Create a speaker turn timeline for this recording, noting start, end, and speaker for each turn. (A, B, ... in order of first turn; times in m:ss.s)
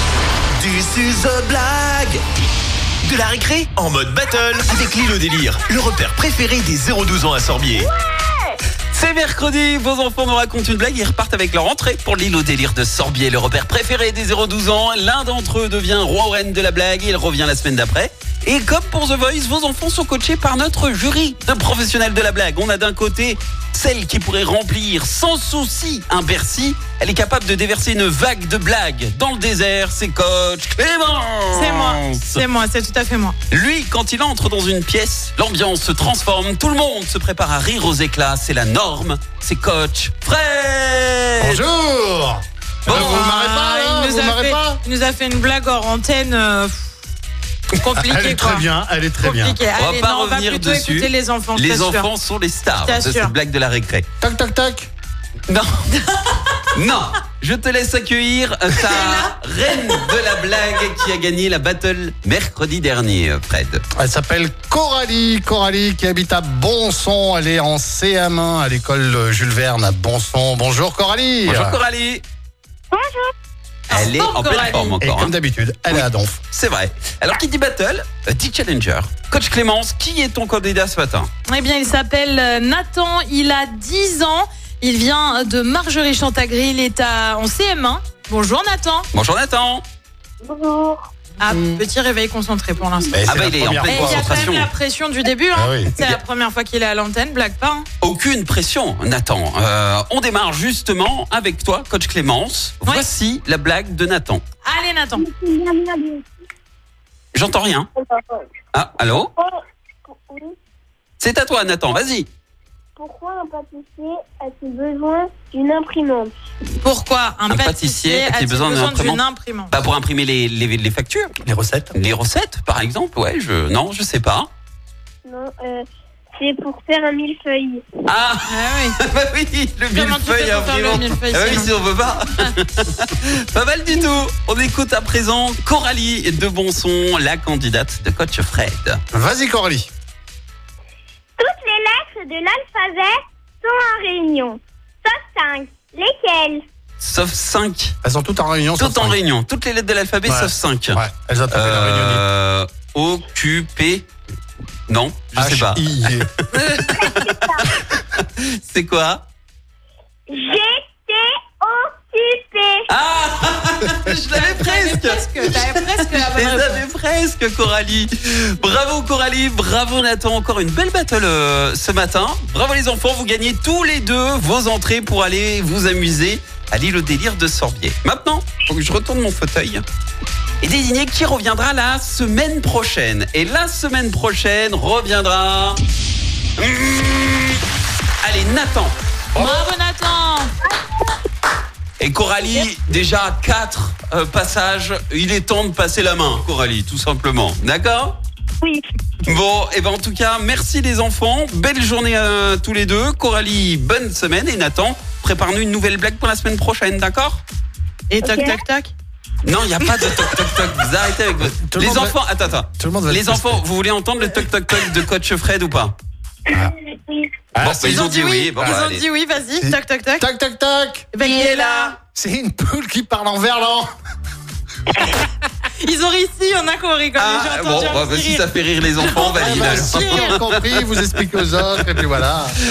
0:00.6-0:02.2 A
0:03.0-0:07.9 A
0:07.8-0:08.4 B
0:08.9-0:32.4 C
0:31.5-0:33.4 D
0:33.5-0:41.6 C
0:41.4-0:44.8 E
0:42.8-0:43.2 C
0:42.9-0:46.9 D
0:47.7-0:48.7 D
0:47.9-0:49.6 E
0:49.2-0:52.1 D
0:49.7-0:54.0 C
0:52.7-0:53.3 D
0:54.2-0:54.9 E
0:55.5-0:56.1 C
0:56.7-1:03.8 C
0:58.7-1:00.1 D
1:04.0-1:11.8 E
1:11.4-1:12.2 C
1:12.9-1:13.3 B
1:13.9-1:15.0 D
1:13.9-1:15.3 C
1:15.0-1:16.4 E
1:15.9-1:21.3 C
1:21.5-1:29.1 D
1:29.1-1:29.8 C
1:30.4-1:31.1 B
1:31.4-1:33.2 D
1:31.5-1:31.8 E
1:33.1-1:34.5 E
1:33.3-1:34.7 C
1:33.8-1:37.8 D
1:35.5-1:36.2 E
1:38.0-1:44.4 C
1:44.6-1:45.2 D
1:45.2-1:46.2 B
1:47.3-1:47.9 C
1:48.0-1:48.4 B
1:48.7-1:49.3 C
1:50.0-1:50.5 B
1:51.2-1:52.3 C
1:53.0-1:56.3 B
1:56.8-1:59.8 D
1:57.5-2:01.4 C
2:01.4-2:01.9 E
2:01.9-2:04.5 C
2:05.2-2:05.8 B
2:06.4-2:07.8 B
2:08.0-2:19.0 C
2:08.5-2:09.0 D
2:09.9-2:11.7 D
2:19.1-2:19.9 E
2:21.4-2:26.6 B
2:27.0-2:27.9 C
2:28.0-2:29.2 E
2:28.8-2:34.1 C
2:30.2-2:32.2 E
2:34.9-2:36.2 C
2:35.4-2:36.3 E
2:36.5-2:36.9 D
2:36.8-2:39.2 C
2:37.0-2:37.6 B
2:40.3-2:42.8 B
2:42.9-2:59.8 C
2:44.3-2:46.8 D
3:00.6-3:05.8 C
3:06.6-3:07.6 C
3:08.2-3:09.0 C
3:09.4-3:10.5 D
3:12.0-3:18.2 C
3:19.2-3:27.4 C
3:28.1-3:28.9 D
3:28.2-3:28.6 B
3:29.4-3:36.0 C
3:29.8-3:30.4 D
3:31.4-3:32.2 E
3:32.8-3:33.6 E
3:36.6-3:37.3 B
3:37.5-3:38.8 E
3:37.6-3:39.0 C
3:37.9-3:40.3 D
3:39.6-3:41.1 E
3:41.1-3:42.0 D
3:41.2-3:42.0 C
3:42.1-3:43.9 E
3:45.8-3:50.4 D
3:47.2-3:52.1 C
3:49.2-3:52.6 E